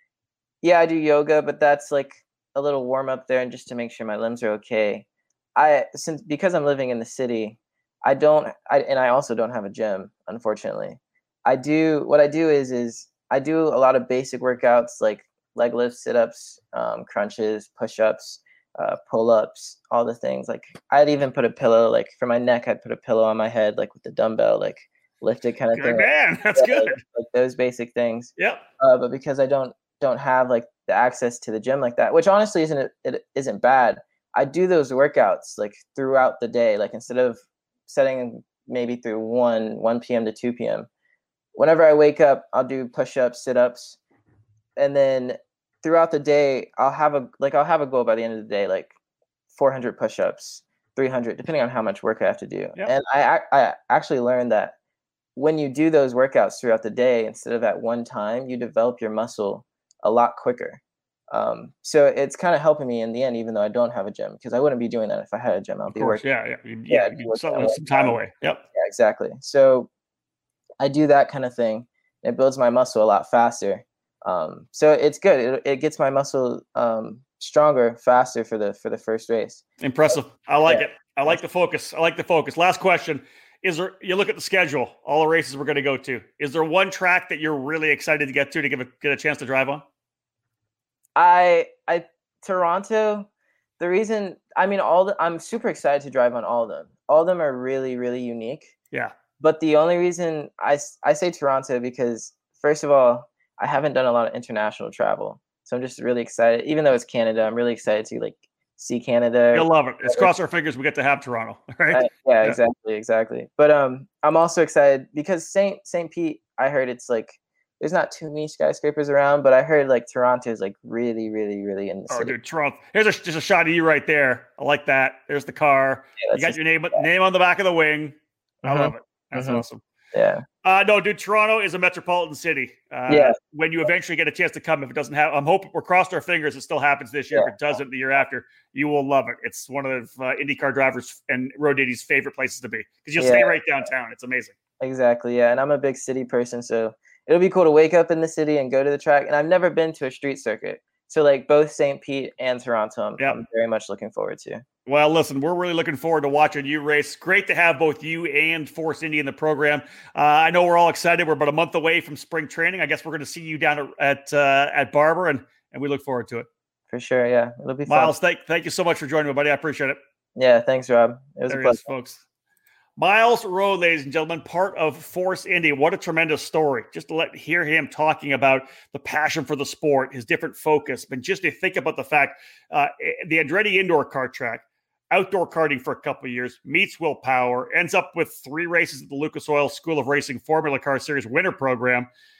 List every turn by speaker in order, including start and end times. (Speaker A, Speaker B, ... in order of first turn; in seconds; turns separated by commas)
Speaker A: 0.6-40.9, Speaker B: 25.7-27.0, Speaker B: 28.4-28.6, Speaker A: 41.5-44.0, Speaker A: 44.8-48.9, Speaker A: 49.5-54.7, Speaker A: 55.4-60.8, Speaker A: 61.3-66.2, Speaker B: 65.9-68.6, Speaker A: 66.9-68.2, Speaker A: 68.7-69.9, Speaker A: 70.8-81.4, Speaker B: 79.8-89.8, Speaker A: 91.2-93.3, Speaker A: 93.8-98.7, Speaker A: 99.4-110.3, Speaker B: 109.5-112.6, Speaker A: 111.9-122.3, Speaker B: 122.1-129.8, Speaker A: 126.2-127.0, Speaker A: 128.6-130.4, Speaker B: 130.6-144.5, Speaker A: 133.1-133.3, Speaker A: 143.2-143.5, Speaker A: 144.8-154.6, Speaker B: 154.8-166.5, Speaker A: 166.9-168.1, Speaker B: 167.9-170.0, Speaker A: 170.3-171.8, Speaker B: 171.5-172.2, Speaker B: 173.0-192.1